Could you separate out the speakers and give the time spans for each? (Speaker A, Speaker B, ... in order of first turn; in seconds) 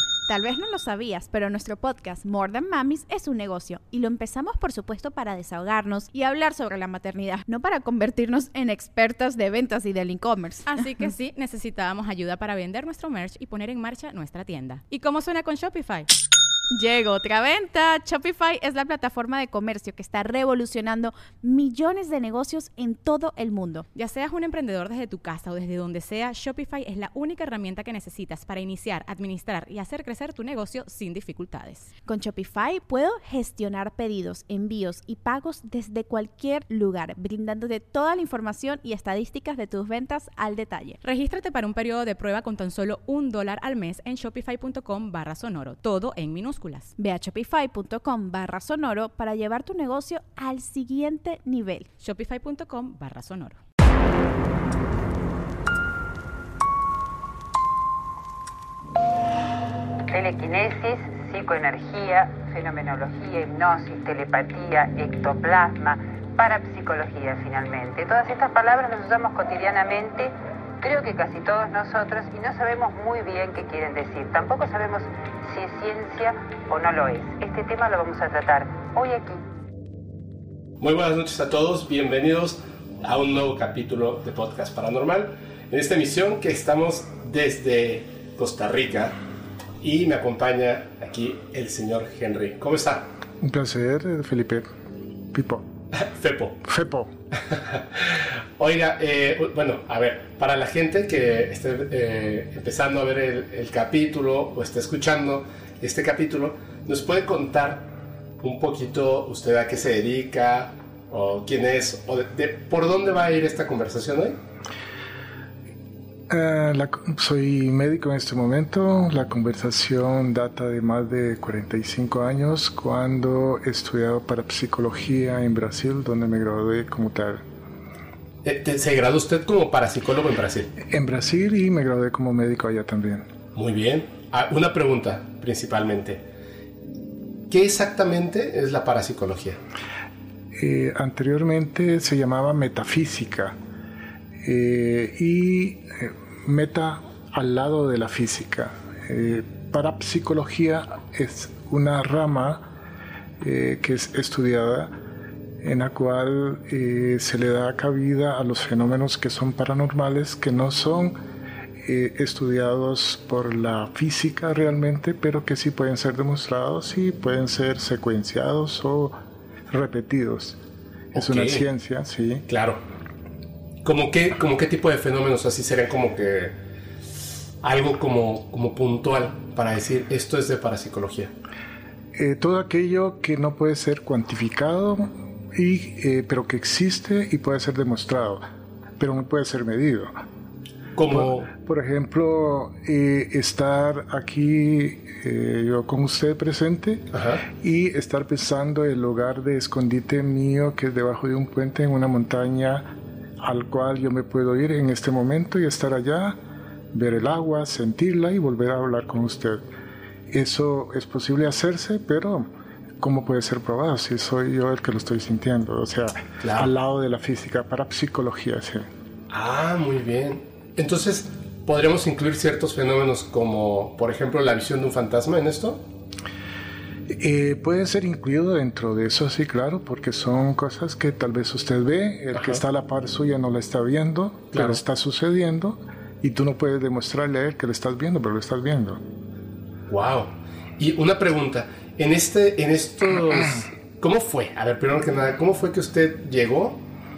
Speaker A: 0.3-11.1, 16.7-23.9, 32.0-41.0, 47.0-51.9
Speaker B: 10.7-16.1, 23.9-31.9, 41.0-46.9, 52.0-53.6
Speaker C: 60.1-79.4
Speaker D: 80.8-89.2, 89.8-93.1, 95.9-96.6, 97.5-107.9, 108.4-114.4, 128.4-130.7, 133.5-136.2, 137.5-139.6, 171.1-171.6, 172.5-172.8, 173.8-176.5, 177.6-181.3, 190.9-191.5, 197.1-197.4, 216.4-216.7, 219.3-225.8, 232.3-232.6, 234.5-234.8, 239.9-246.8
Speaker E: 93.4-94.7, 95.3-95.7, 96.6-97.1, 116.3-127.5, 130.8-133.3, 140.5-143.6, 144.4-152.7, 153.4-155.0, 155.6-161.2, 161.8-169.2, 169.7-170.6, 171.1-172.4, 182.1-188.4, 189.0-190.1, 191.1-206.4, 206.9-209.6, 210.3-218.9, 227.1-239.0